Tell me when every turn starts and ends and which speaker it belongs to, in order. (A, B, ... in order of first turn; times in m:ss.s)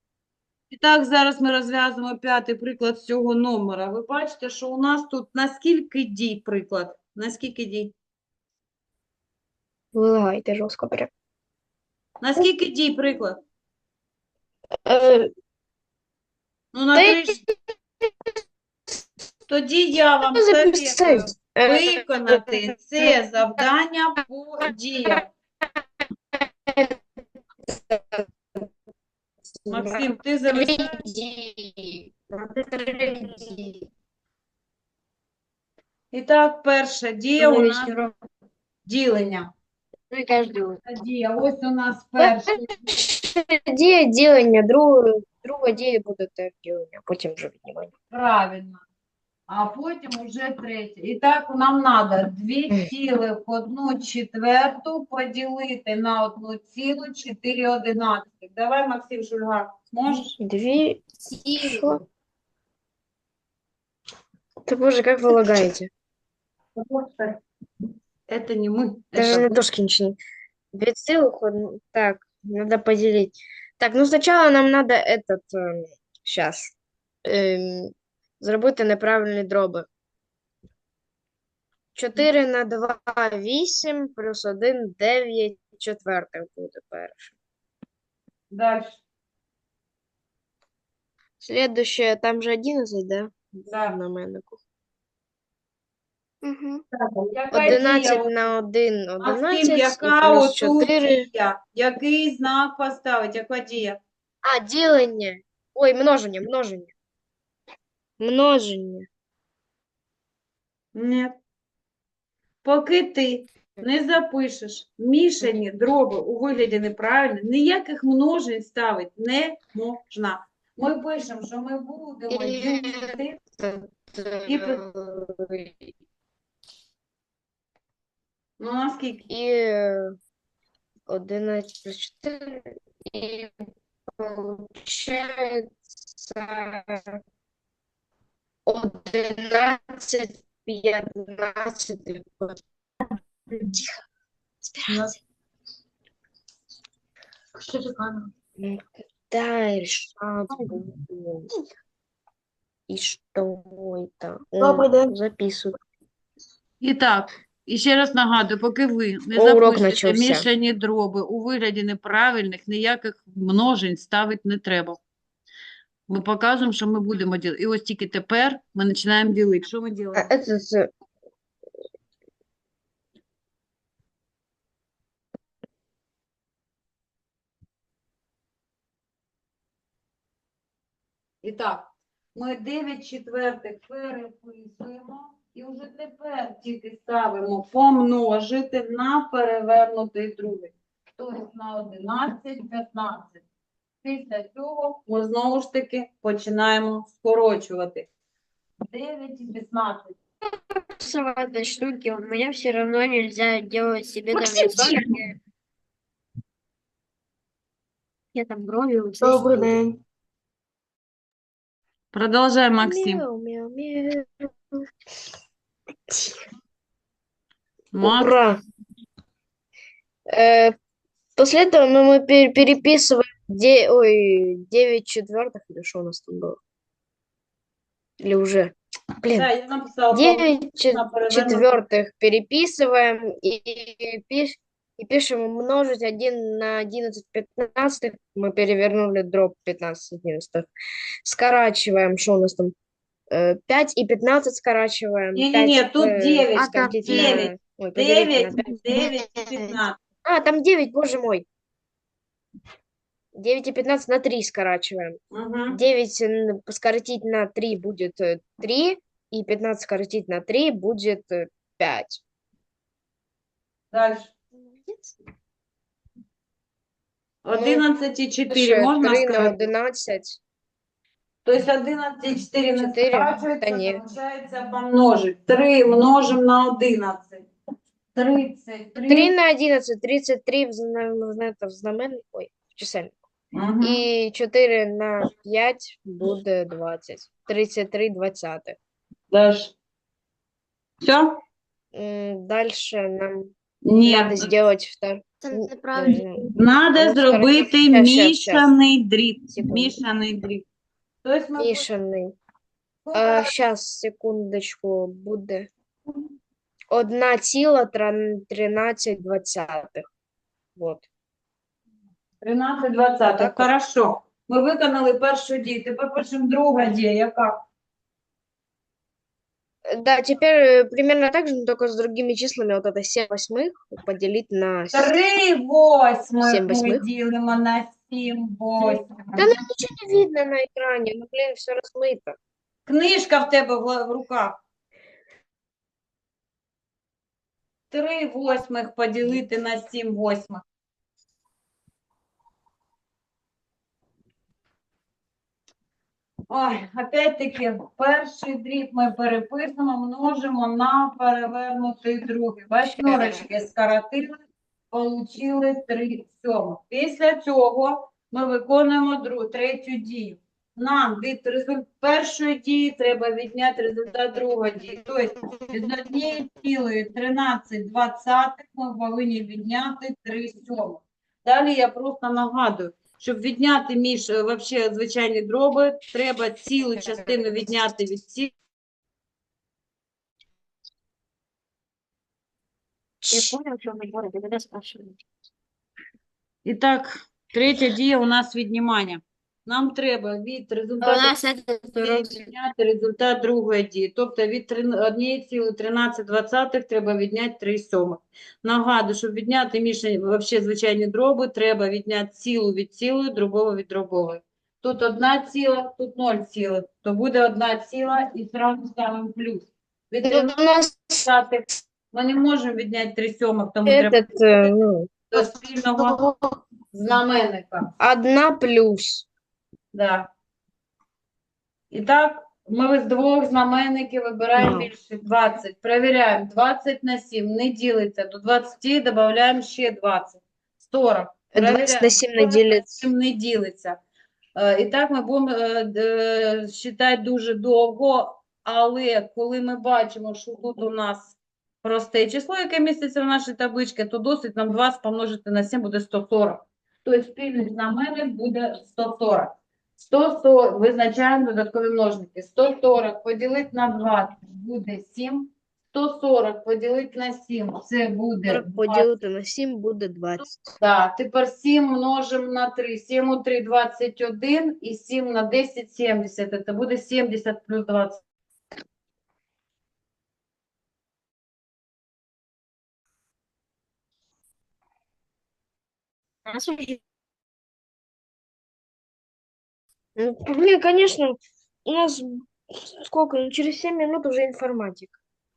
0:00.7-0:07.9 A
0:09.9-0:11.1 B
0:12.2-0:13.4 A
0:14.8-0:15.3 B
0:16.7-0:17.4 A
0:16.9-0:17.5 B
0:19.5-0:25.3 A
0:20.2-0:23.2 B
0:26.7-0:27.0 B
0:27.6-0:28.7 B
0:29.6-0:33.9 B
0:29.7-0:31.0 A
0:36.1-0:38.0 A
0:37.4-0:38.1 C
0:38.8-0:39.5 A
0:40.1-0:40.8 C
0:40.8-0:43.0 A
0:43.0-0:47.9 B
0:48.1-0:48.8 A
0:49.5-1:00.4 A
1:00.1-1:02.0 B
1:04.6-1:05.9 B
1:06.8-1:07.4 A
1:08.3-1:09.6 A
1:09.1-1:10.2 B
1:10.7-1:16.7 B
1:17.2-1:19.9 B
1:21.9-1:27.3 B
1:28.5-1:29.0 A
1:31.4-1:34.6 B
1:33.7-1:34.0 A
1:37.0-1:38.3 A
1:37.5-1:41.2 B
1:39.2-1:44.0 A
1:44.4-1:46.9 B
1:48.2-1:49.1 B
1:50.9-1:51.3 A
1:52.6-2:03.4 A
2:02.3-2:05.8 B
2:04.4-2:04.8 A
2:08.6-2:09.2 A
2:09.3-2:10.2 B
2:11.1-2:13.5 B
2:14.1-2:17.2 B
2:18.6-2:22.6 B
2:27.7-2:28.3 D
2:28.6-2:31.5 B
2:32.9-2:35.8 B
2:34.6-2:35.1 D
2:36.8-2:45.0 A
2:39.3-2:40.4 B
2:46.1-2:50.3 A
2:50.1-2:50.9 B
3:01.4-3:13.4 A
3:14.0-3:18.1 A
3:18.9-3:20.1 A
3:21.0-3:25.3 C
3:28.3-3:29.7 C
3:29.2-3:29.9 D
3:29.3-3:29.8 B
3:32.1-3:33.2 A
3:32.8-3:34.8 B
3:36.1-3:36.4 B
3:37.9-3:38.4 A
3:38.0-3:38.6 B
3:40.3-3:40.7 B
3:41.4-3:46.6 B
3:48.2-3:49.5 B
3:49.3-3:51.7 A
3:50.1-4:00.7 B
4:01.2-4:02.7 B
4:03.3-4:09.0 B
4:05.3-4:10.0 A
4:06.6-4:07.4 D
4:10.2-4:11.4 B
4:13.3-4:22.2 B
4:15.3-4:15.8 A
4:23.9-4:24.3 A
4:27.4-4:29.7 A
4:27.5-4:27.8 B
4:28.5-4:30.4 B
4:31.4-4:37.4 A
4:32.8-4:34.0 B
4:38.1-4:39.3 A
4:39.1-4:43.1 B
4:43.5-4:44.0 A
4:43.8-4:48.8 B
4:49.3-4:49.7 A
4:51.0-4:51.4 A
4:51.9-4:58.7 B
4:53.8-4:54.5 A
4:55.5-4:56.2 C
4:56.5-5:00.6 A
4:59.5-5:00.0 B
5:01.2-5:01.9 A
5:01.6-5:02.4 B
5:03.0-5:03.5 A
5:03.1-5:05.7 B
5:06.9-5:10.0 B
5:10.8-5:11.1 B
5:12.4-5:17.6 A
5:13.4-5:13.7 B
5:19.9-5:25.1 B
5:24.9-5:29.5 A
5:26.4-5:27.0 B
5:28.9-5:32.4 B
5:32.9-5:34.6 A
5:37.9-5:40.6 A
5:46.5-5:54.4 A
5:52.8-5:53.4 B
5:54.9-6:18.5 A
6:23.2-6:23.5 B
6:23.3-6:25.2 C
6:26.6-6:31.3 A
6:31.0-6:32.4 C
6:31.9-6:54.7 A
6:50.2-6:51.2 B
6:53.8-6:55.1 B
6:55.3-6:56.2 A
6:56.0-6:56.5 D
6:56.9-6:57.9 A
6:58.0-6:59.2 B
6:59.9-7:00.3 A
7:01.9-7:14.0 A
7:04.6-7:04.9 B
7:11.5-7:13.1 B
7:14.6-7:39.1 A
7:38.5-7:40.7 B
7:40.4-7:48.2 A
7:56.4-7:57.0 C
8:00.2-8:05.2 B